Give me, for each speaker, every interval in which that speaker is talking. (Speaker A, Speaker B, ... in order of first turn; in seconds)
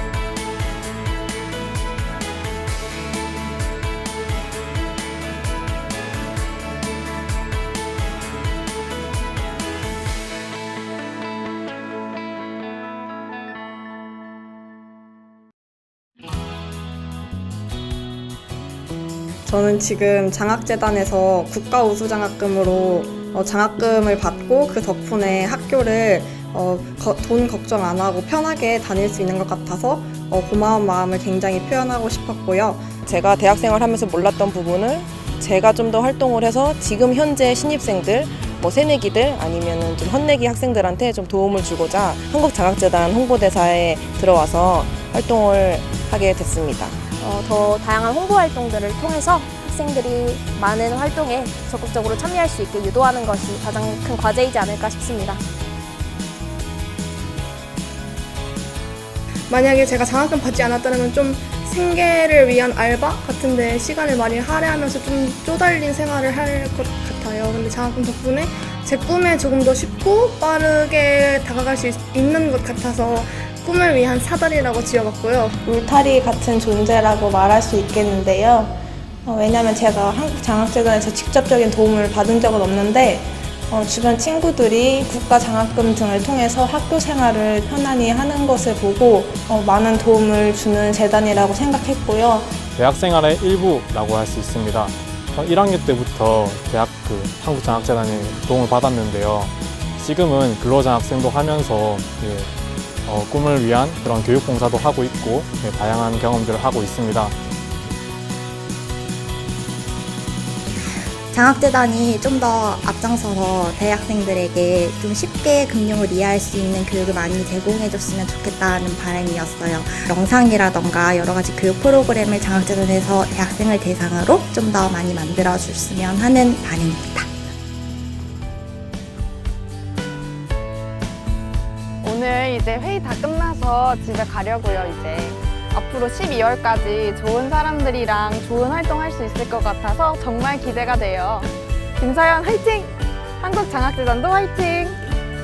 Speaker A: 19.4-32.9
Speaker B: 33.0-47.0
Speaker C: 47.0-55.4
Speaker D: 59.5-75.5
Speaker E: 75.6-92.6
Speaker F: 92.7-102.5, 103.0-107.3
Speaker G: 111.3-127.3
Speaker H: 132.0-145.0